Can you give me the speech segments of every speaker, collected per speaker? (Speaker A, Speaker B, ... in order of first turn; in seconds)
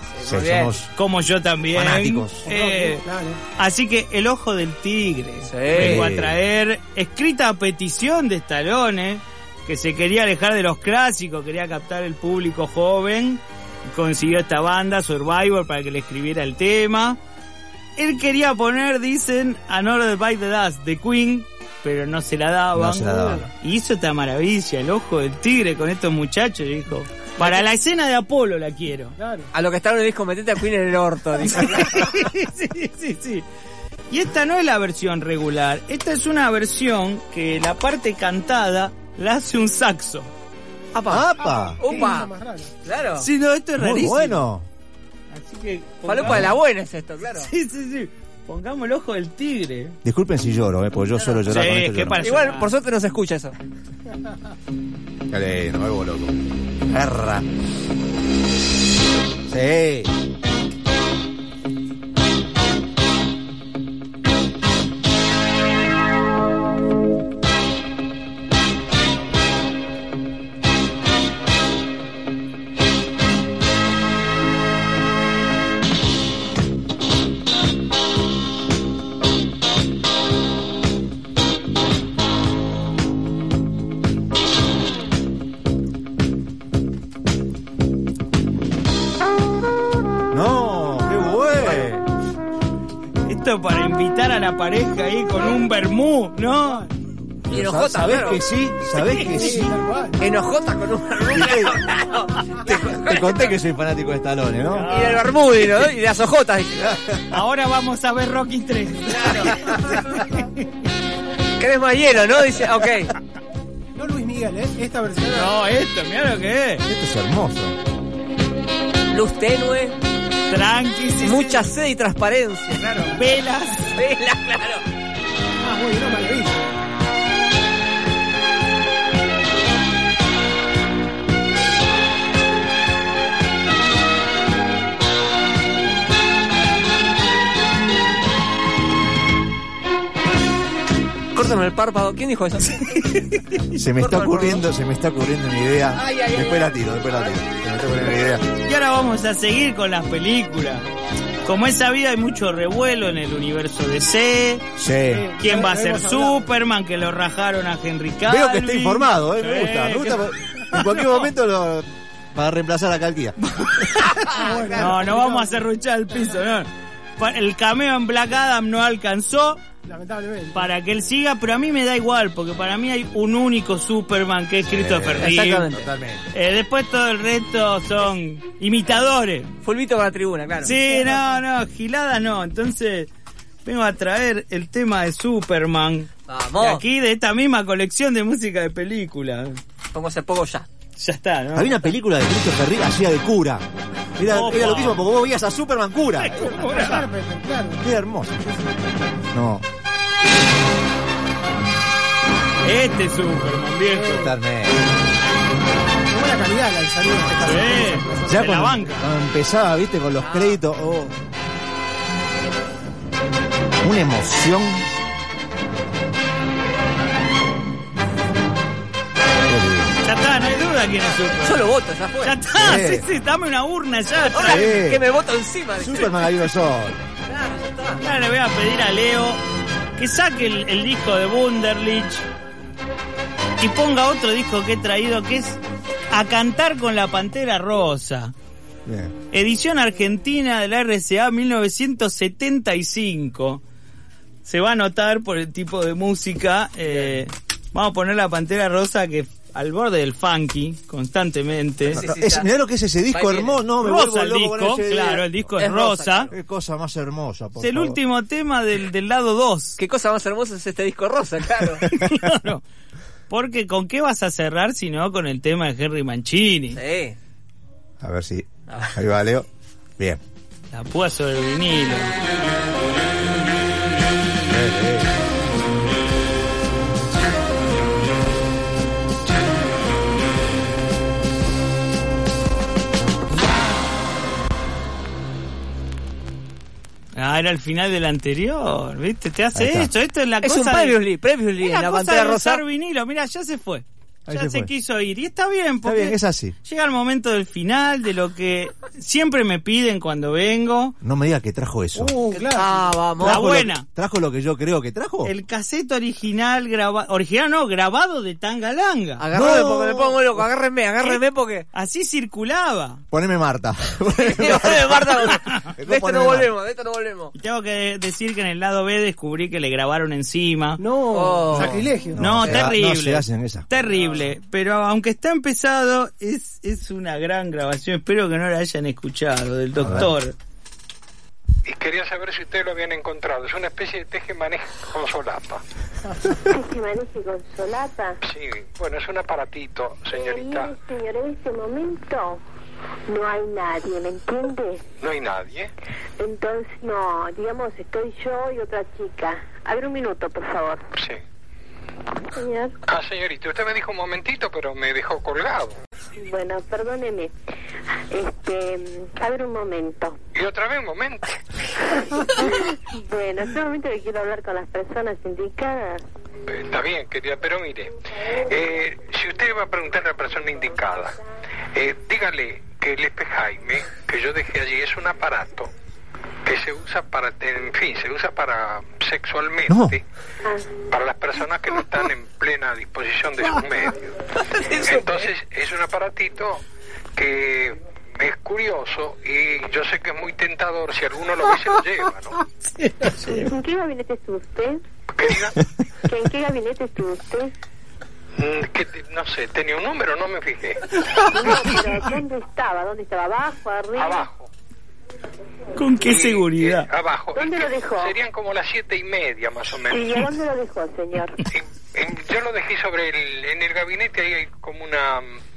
Speaker A: 0.1-0.8, 5.4-6.1, 29.5-31.9, 40.9-42.3, 42.8-43.3, 46.0-47.5, 52.2-53.5, 97.5-98.4, 100.2-103.5, 104.9-107.0, 109.1-110.0, 111.6-113.1, 119.1-120.0, 121.2-123.1, 123.9-124.8, 141.3-143.2, 144.0-144.6, 145.9-147.4, 164.2-164.7, 175.2-175.9, 179.6-180.8, 186.3-186.8, 189.9-190.7, 210.2-210.6, 221.4-222.4, 224.2-226.4, 227.3-228.0, 246.8-247.1, 251.9-252.5, 253.1-253.6, 255.6-256.3, 259.8-261.9, 266.7-267.2, 268.7-268.9, 290.4-292.6, 302.3-303.5, 309.2-311.7, 314.1-317.3, 321.1-321.8, 322.4-322.7, 384.6-385.3
Speaker B: 0.2-0.9, 1.7-2.5, 5.7-6.4, 22.7-23.5, 41.0-42.1, 43.8-44.7, 46.2-46.5, 50.0-52.2, 55.3-56.4, 56.9-57.5, 59.5-60.1, 90.3-92.0, 97.5-99.7, 101.2-101.8, 102.6-104.9, 116.8-117.8, 143.7-148.4, 154.8-155.3, 158.2-163.3, 174.6-176.3, 191.5-193.6, 194.2-196.7, 197.8-198.4, 199.3-199.7, 203.9-204.8, 208.3-211.1, 213.8-214.8, 219.4-219.9, 222.5-223.1, 224.4-225.0, 225.7-227.0, 238.8-239.1, 251.9-255.6, 256.3-258.0, 268.0-269.5, 274.4-275.1, 289.5-289.9, 294.3-294.7, 295.8-296.5, 301.0-302.1, 303.2-305.3, 309.3-310.4, 313.1-316.5, 321.5-323.7, 329.8-330.1, 379.7-380.0
Speaker C: 0.9-3.0, 3.6-17.2, 18.0-29.1, 31.4-33.4, 34.1-40.3, 43.2-44.4, 45.3-46.6, 47.4-50.0, 51.5-52.7, 93.2-96.9, 99.0-99.7, 104.7-105.3, 107.3-110.5, 115.2-116.8, 120.5-121.7, 123.1-124.0, 148.5-150.9, 151.4-154.7, 155.4-161.3, 163.4-169.6, 170.5-175.7, 176.3-179.5, 180.6-183.1, 183.6-189.6, 190.9-191.8, 194.2-195.0, 196.2-197.0, 202.6-204.3, 207.4-209.1, 220.0-221.7, 222.2-224.7, 228.0-229.4, 230.0-232.2, 233.6-238.3, 239.3-243.6, 244.4-252.1, 253.8-256.3, 257.6-259.8, 261.9-262.6, 263.3-266.8, 270.7-272.1, 287.1-291.0, 291.6-300.9, 303.2-303.9, 305.2-309.3, 311.7-313.0, 317.3-320.8, 322.1-330.4, 392.8-393.5, 405.7-406.9
Speaker D: 2.4-3.4, 29.2-29.5, 41.4-42.7, 96.6-96.9, 99.2-100.2, 113.9-115.5, 125.6-126.7, 155.1-156.5, 164.4-165.6, 169.8-170.6, 196.4-197.8, 206.1-208.4, 301.9-302.9, 320.8-322.2
Speaker E: 331.6-335.6, 338.2-340.7, 345.0-345.7, 352.9-355.8, 360.3-361.4, 366.5-367.9, 368.5-371.2, 371.7-375.7, 376.4-380.0, 380.9-384.1, 384.8-386.6, 387.1-392.4, 395.1-395.6, 398.4-401.0, 404.0-404.5, 406.0-410.1, 411.5-415.4
Speaker F: 336.4-338.2, 340.1-342.4, 343.1-344.9, 346.2-350.9, 352.3-352.8, 356.2-357.3, 358.1-360.2, 362.4-366.0, 380.4-380.7, 393.3-394.8, 396.1-397.5, 401.2-404.3, 407.3-408.1, 409.9-411.4